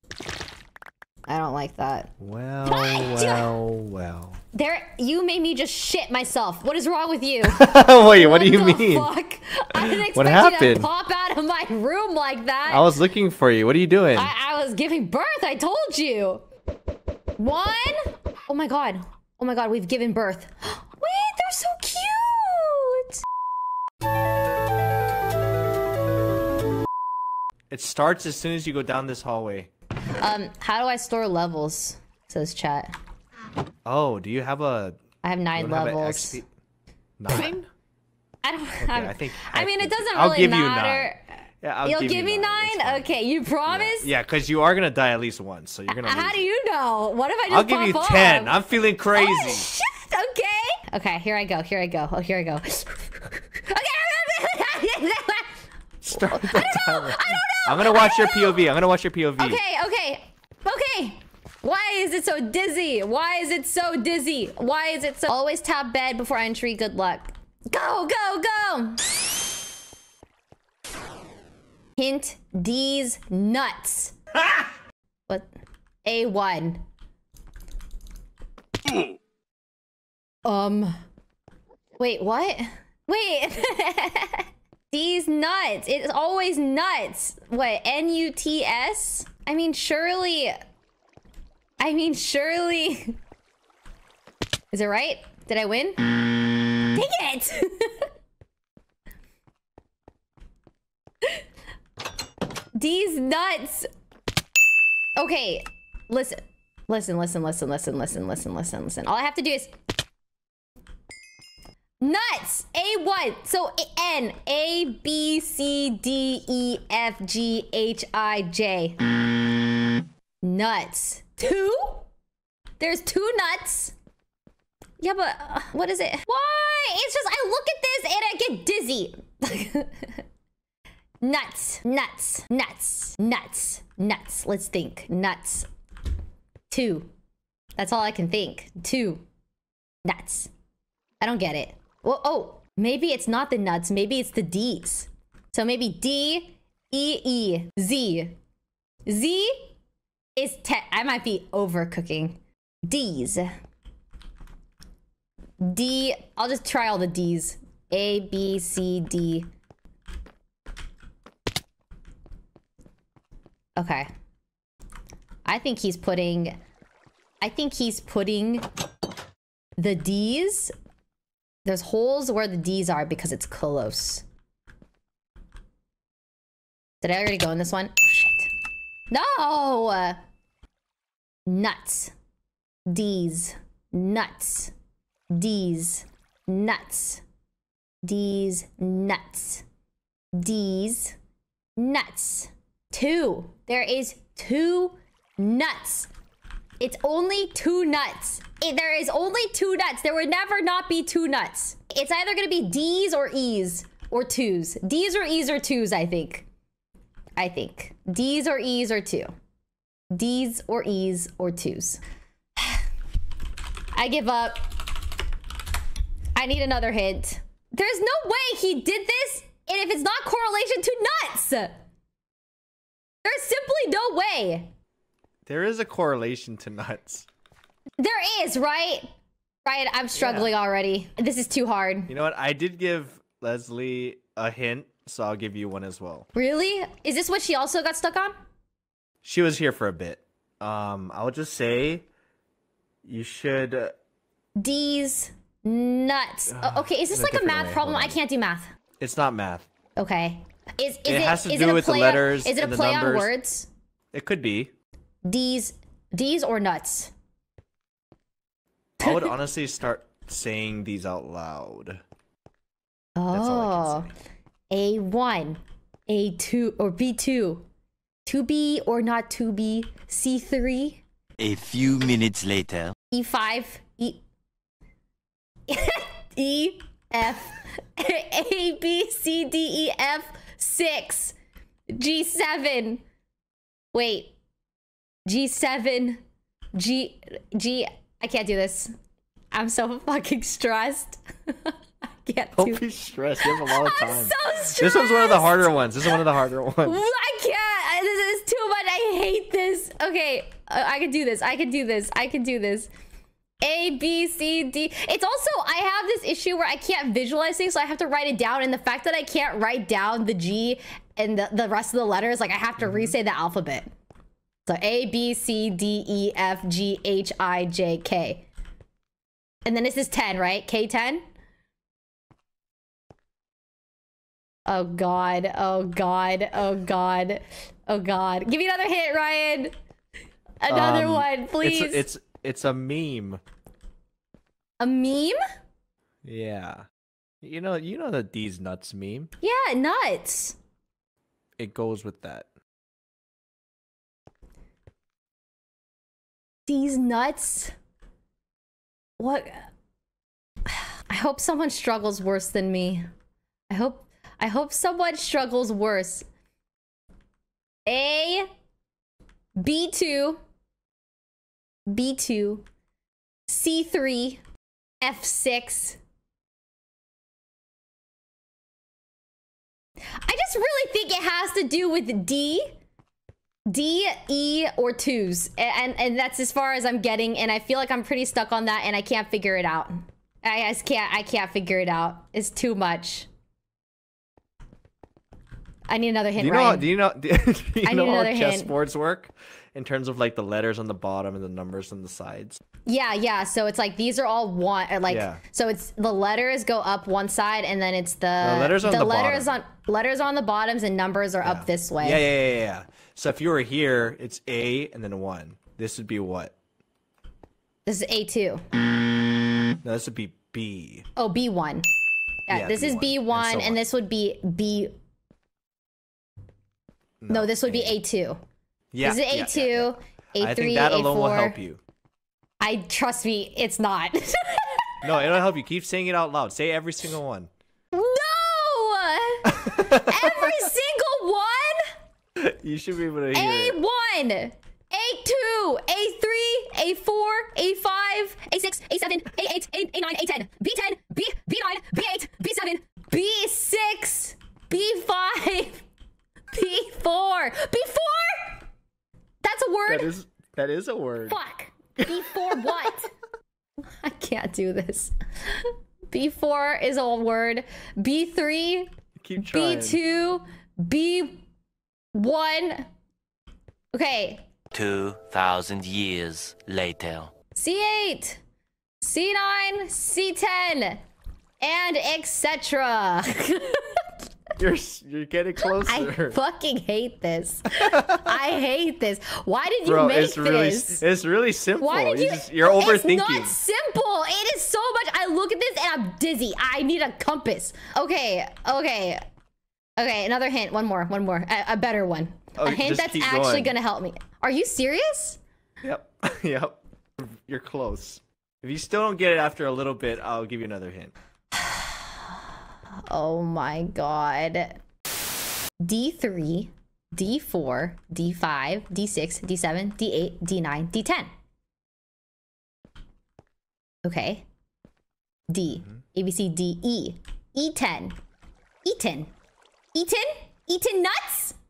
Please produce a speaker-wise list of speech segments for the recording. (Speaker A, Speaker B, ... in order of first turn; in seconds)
Speaker A: 1.3-2.1, 2.7-3.5, 4.5-13.0, 14.1-16.4, 17.4-23.2, 30.2-32.9, 35.2-36.4, 38.4-44.1, 45.9-48.6, 49.1-55.6, 56.1-58.6, 59.4-69.0, 72.0-74.2, 76.0-76.8, 80.4-81.0, 82.0-90.5, 91.8-93.2, 94.7-96.0, 96.8-98.1, 102.8-103.9, 105.2-109.7, 112.0-119.0, 120.4-122.1, 122.8-123.9, 125.0-130.2, 131.2-135.7, 136.7-137.1, 137.8-139.2, 140.1-140.5, 141.2-148.4, 149.1-149.7, 150.4-153.5, 155.6-159.5, 163.8-164.1, 165.4-166.6, 167.4-168.7, 169.8-170.7, 171.7-174.2, 177.0-178.5, 179.1-180.2, 181.5-182.1, 182.9-184.7, 185.3-187.2, 188.0-189.6, 190.3-191.2, 191.8-196.1, 196.8-206.5, 207.4-209.3, 210.1-212.0, 213.9-214.8, 216.3-221.8, 223.2-224.7, 228.0-229.1, 229.7-232.1, 236.3-238.3, 244.6-248.7, 250.0-253.7, 255.2-257.1, 259.0-259.4, 263.2-264.1, 264.7-267.6, 268.2-271.0, 273.1-274.2, 275.7-281.4, 281.9-283.0, 283.9-284.3, 285.2-286.2, 286.7-288.9, 289.5-292.8, 293.4-295.9, 296.9-302.9, 303.6-313.9, 314.7-318.5, 319.6-321.2, 324.7-329.7, 330.6-332.1, 334.8-335.4, 339.4-340.6, 346.7-347.7, 349.2-349.7, 350.7-353.0, 353.7-356.3, 357.9-358.5, 359.6-360.4, 361.9-362.6, 363.5-364.4, 365.0-366.0, 370.1-372.7, 373.7-383.3, 385.9-386.9, 387.8-388.7, 392.9-402.2, 407.9-408.6, 411.2-411.9, 412.5-414.9, 417.3-418.4, 419.0-421.6, 422.6-425.2, 427.9-431.9, 433.3-445.9, 446.5-448.6, 449.4-450.1, 451.3-453.1, 453.9-458.9, 459.4-461.4, 462.1-462.9, 463.9-464.5, 467.6-468.4, 469.0-471.0, 471.6-474.1, 475.7-481.0, 481.8-489.2, 490.0-495.4, 501.6-502.2, 503.1-504.8, 505.8-511.3, 514.0-514.5, 515.5-518.2, 518.8-519.3, 519.9-521.6
Speaker B: 2.2-4.4, 7.5-9.1, 9.7-10.9, 12.7-14.3, 27.7-29.7, 33.9-35.0, 35.6-36.5, 37.2-37.7, 38.8-43.1, 43.7-46.4, 47.5-49.7, 56.0-59.6, 225.5-227.3, 230.2-230.5, 232.1-236.3, 239.2-242.1, 243.0-243.9, 246.5-248.2, 249.0-249.7, 251.1-253.3, 254.1-254.7, 259.0-262.0, 263.3-264.1, 292.6-297.0, 330.7-333.4, 336.2-336.9, 337.4-339.3, 341.6-342.5, 386.4-392.6, 395.1-395.4, 398.4-399.5, 401.4-406.5, 409.8-411.1, 412.5-413.8, 417.2-418.0, 418.9-421.8, 425.0-427.5, 429.5-430.7, 432.4-433.8, 449.9-451.4, 452.0-452.9, 459.2-460.0, 474.6-476.4, 477.8-478.2, 479.9-483.6, 492.6-493.7, 495.8-501.1
Speaker C: 271.4-272.9, 464.7-467.3